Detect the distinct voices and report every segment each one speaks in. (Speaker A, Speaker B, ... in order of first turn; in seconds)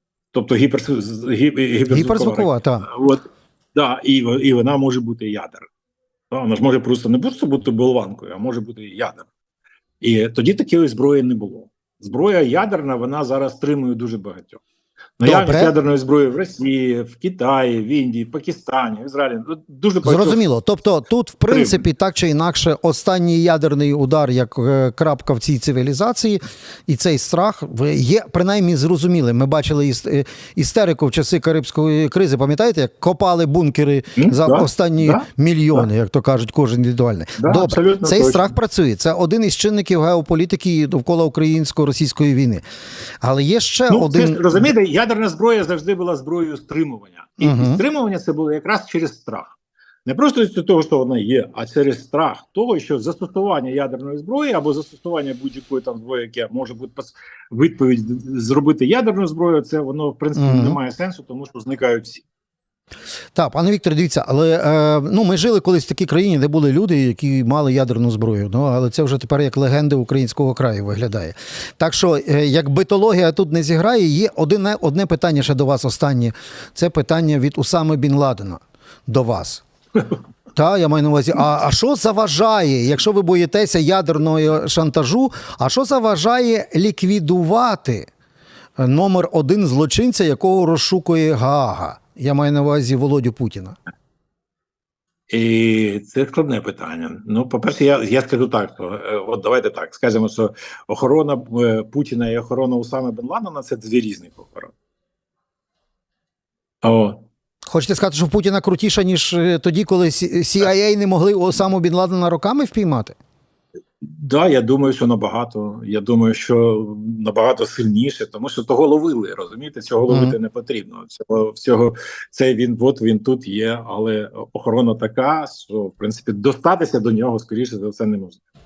Speaker A: 0.3-5.7, 6.3-9.2, 10.0-14.6, 15.2-20.5, 21.5-21.8, 34.2-35.9, 37.4-38.5, 43.9-62.2, 95.3-104.7, 106.8-107.2, 114.0-128.4
Speaker B: 1.9-2.9, 15.2-15.7, 20.0-42.6, 43.2-44.6, 47.4-47.8, 60.4-60.8, 63.3-79.6, 80.5-88.1, 88.8-93.8, 107.7-113.1, 120.1-120.3